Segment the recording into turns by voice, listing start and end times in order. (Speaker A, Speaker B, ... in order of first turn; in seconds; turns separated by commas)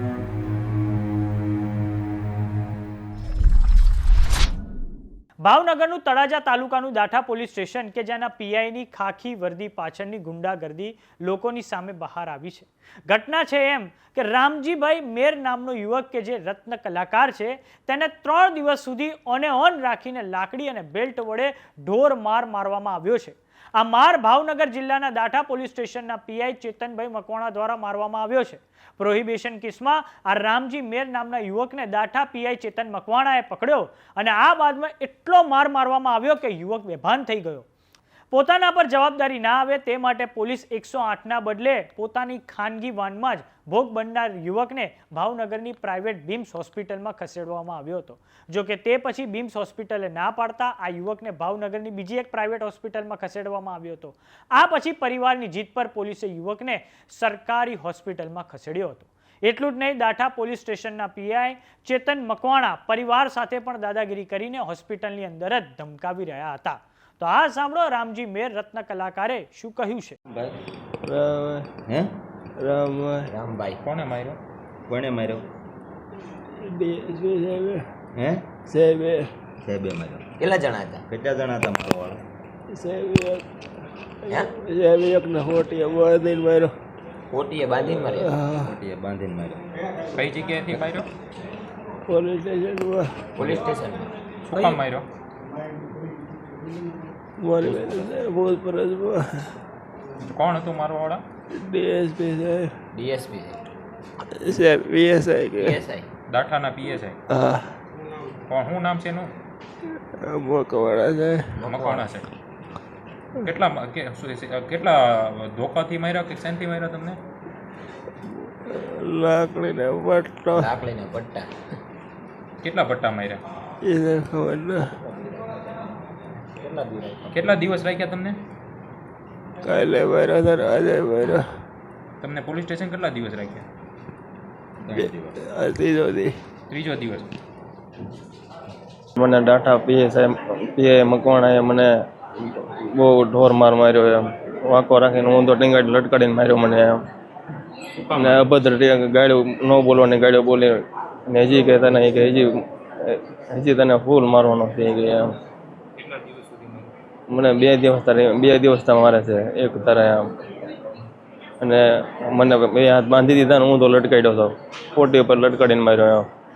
Speaker A: 5.4-37.6, Speaker A: 38.3-70.2, Speaker B: 71.0-71.7, Speaker C: 71.9-72.1, Speaker B: 72.6-73.3, Speaker D: 73.3-73.8, Speaker E: 73.8-74.4, Speaker C: 74.9-75.5, Speaker B: 76.5-77.9, Speaker C: 78.2-78.5, Speaker B: 78.7-79.3, Speaker C: 79.6-80.3, Speaker D: 80.4-81.0, Speaker C: 81.0-82.2, Speaker B: 82.7-83.5, Speaker B: 84.2-86.7, Speaker D: 87.3-88.3, Speaker B: 87.8-88.6, Speaker C: 88.6-89.6, Speaker E: 90.2-91.1, Speaker B: 92.1-93.2, Speaker D: 93.4-94.1, Speaker E: 94.5-95.0, Speaker B: 97.4-99.5, Speaker E: 100.3-101.2, Speaker B: 101.5-102.7, Speaker D: 102.9-103.6, Speaker B: 104.3-105.8, Speaker D: 105.6-106.1, Speaker E: 106.3-107.2, Speaker B: 107.3-107.7, Speaker E: 108.5-109.3, Speaker B: 110.2-111.5, Speaker D: 111.6-112.1, Speaker E: 111.6-112.3, Speaker E: 113.4-117.2, Speaker B: 118.6-120.7, Speaker D: 120.5-121.5, Speaker E: 122.6-123.4, Speaker B: 123.8-124.9, Speaker D: 126.6-127.3, Speaker E: 127.3-128.4, Speaker B: 129.6-131.5, Speaker E: 132.2-133.6, Speaker C: 134.8-135.4, Speaker B: 135.0-136.4, Speaker E: 136.7-137.3, Speaker F: 139.2-141.9, Speaker F: 142.4-147.1, Speaker E: 148.0-148.5, Speaker F: 148.2-155.3, Speaker E: 156.1-156.8, Speaker F: 157.3-160.3, Speaker F: 161.6-166.3